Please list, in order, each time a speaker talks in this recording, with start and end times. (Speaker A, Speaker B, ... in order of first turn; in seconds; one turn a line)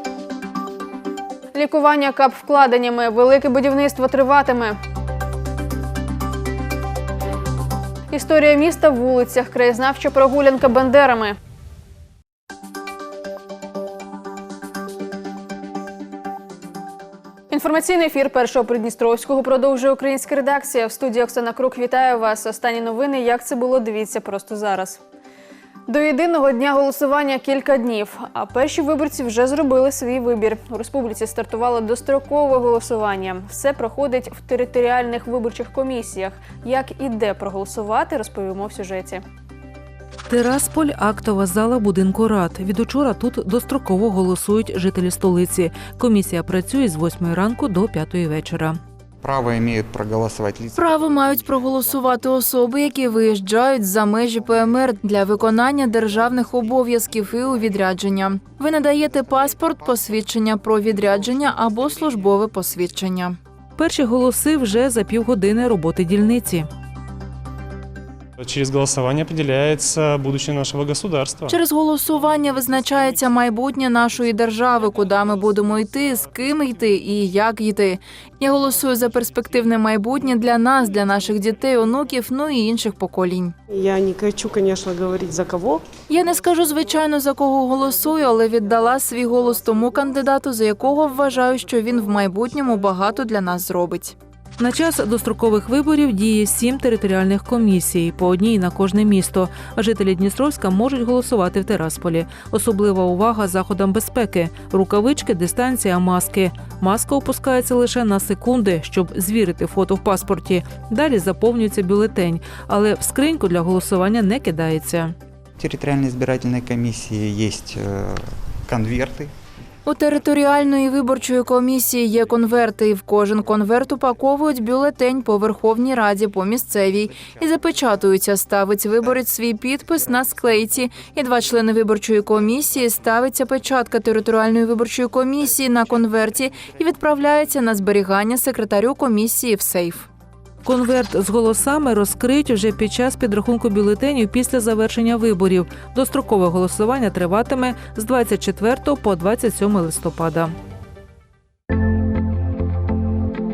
Speaker A: 1.5-4.8
Speaker A: 8.1-11.4
Speaker A: 17.5-25.0
Speaker A: 25.9-39.2
Speaker B: 40.3-48.8
Speaker C: 49.2-50.8
Speaker D: 50.7-63.4
Speaker B: 63.8-66.7
Speaker E: 68.4-71.5
Speaker D: 71.5-83.5
Speaker F: 83.7-85.8
Speaker D: 86.1-94.2
Speaker B: 94.6-115.1
Speaker C: 115.6-119.3
Speaker D: 119.8-140.1
Speaker B: 140.6-150.5